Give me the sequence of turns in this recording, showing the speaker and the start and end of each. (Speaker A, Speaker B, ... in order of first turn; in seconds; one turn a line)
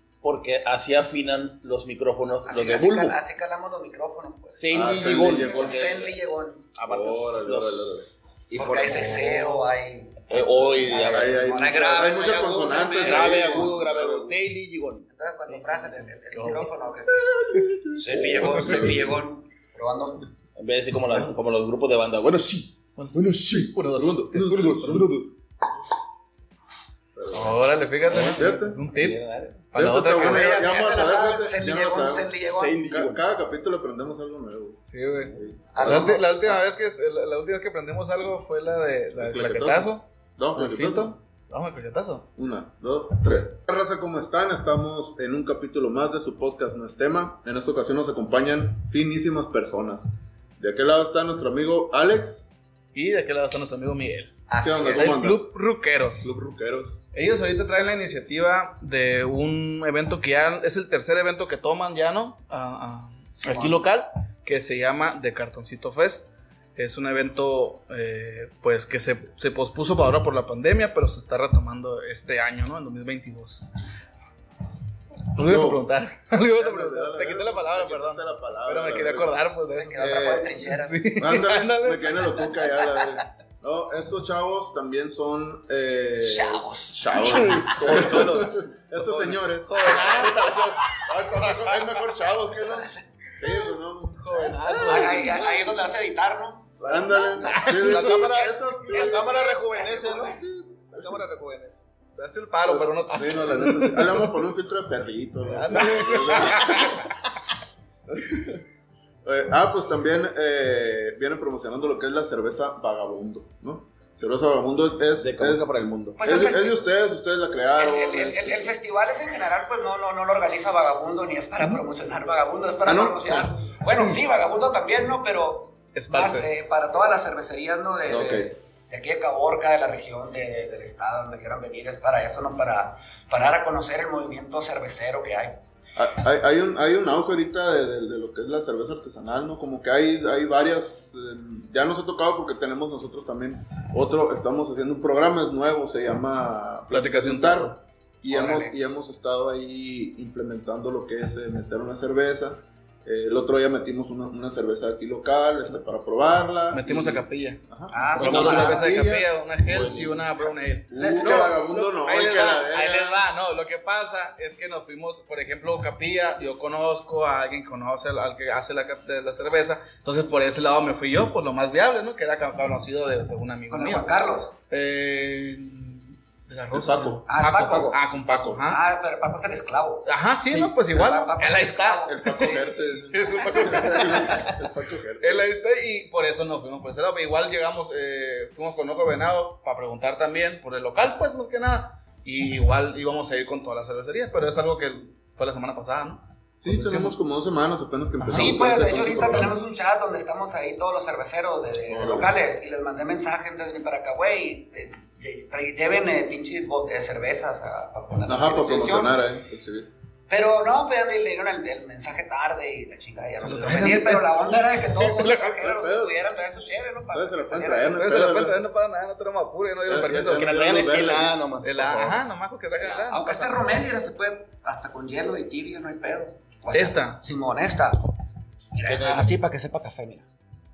Speaker A: 0.2-3.1
Speaker B: 2.5-6.7
Speaker A: 4.6-6.2
Speaker C: 4.7-5.9
Speaker A: 6.8-7.9
Speaker C: 6.8-8.1
Speaker A: 8.5-9.7
Speaker B: 8.5-13.7
Speaker A: 10.3-12.0
Speaker C: 10.3-14.4
Speaker A: 13.0-15.6
Speaker B: 15.1-17.3
Speaker D: 15.7-16.7
Speaker C: 17.0-19.1
Speaker B: 17.9-20.3
Speaker A: 18.1-18.7
Speaker A: 20.6-22.8
Speaker D: 22.9-25.1
Speaker C: 23.1-25.2
Speaker A: 24.7-25.2
Speaker C: 27.1-28.8
Speaker D: 27.3-29.2
Speaker A: 28.1-29.6
Speaker D: 29.7-30.6
Speaker C: 29.7-34.8
Speaker B: 30.1-32.8
Speaker A: 32.4-33.2
Speaker D: 34.9-42.3
Speaker C: 35.3-36.6
Speaker B: 35.7-36.5
Speaker C: 39.1-41.1
Speaker C: 42.4-50.1
Speaker C: 50.6-52.5
Speaker D: 52.9-54.3
Speaker B: 54.5-55.2
Speaker C: 54.6-55.5
Speaker D: 54.9-56.3
Speaker C: 56.2-57.0
Speaker D: 57.1-73.6
Speaker B: 63.5-63.8
Speaker D: 75.3-82.6
Speaker C: 75.3-75.8
Speaker C: 76.5-79.3
Speaker B: 79.7-81.0
Speaker C: 80.0-80.6
Speaker C: 81.2-95.2
Speaker B: 86.1-88.2
Speaker D: 87.2-90.7
Speaker B: 89.8-90.5
Speaker B: 92.6-93.0
Speaker D: 94.2-95.6
Speaker B: 94.3-100.4
Speaker C: 96.8-99.5
Speaker D: 97.5-98.4
Speaker A: 97.5-101.8
Speaker C: 100.2-101.2
Speaker D: 102.2-104.3
Speaker C: 102.6-107.0
Speaker D: 105.4-107.1
Speaker A: 106.5-106.8
Speaker C: 108.1-108.6
Speaker C: 109.2-118.7
Speaker A: 115.1-116.2
Speaker B: 116.2-116.8
Speaker B: 117.8-135.6
Speaker C: 122.8-123.5
Speaker D: 125.9-126.5
Speaker C: 128.1-128.5
Speaker C: 135.9-163.2
Speaker D: 146.9-147.7
Speaker B: 148.3-148.8
Speaker D: 156.7-157.6
Speaker B: 157.9-158.9
Speaker D: 158.1-174.1
Speaker B: 160.9-161.6
Speaker B: 173.7-174.5
Speaker D: 174.7-178.8
Speaker C: 176.7-177.2
Speaker B: 177.3-180.1
Speaker A: 177.6-177.9
Speaker D: 180.1-184.6
Speaker B: 180.9-182.6
Speaker C: 182.1-185.5
Speaker D: 185.2-197.2
Speaker C: 196.6-199.6
Speaker B: 198.2-209.2
Speaker C: 201.9-202.3
Speaker C: 208.3-209.9
Speaker B: 210.3-218.0
Speaker D: 213.4-215.5
Speaker C: 215.6-216.4
Speaker C: 217.1-218.6
Speaker D: 217.9-220.6
Speaker C: 219.8-221.4
Speaker A: 220.3-222.2
Speaker D: 221.6-223.6
Speaker B: 222.8-228.1
Speaker D: 226.7-227.2
Speaker B: 228.7-230.3
Speaker A: 228.8-229.3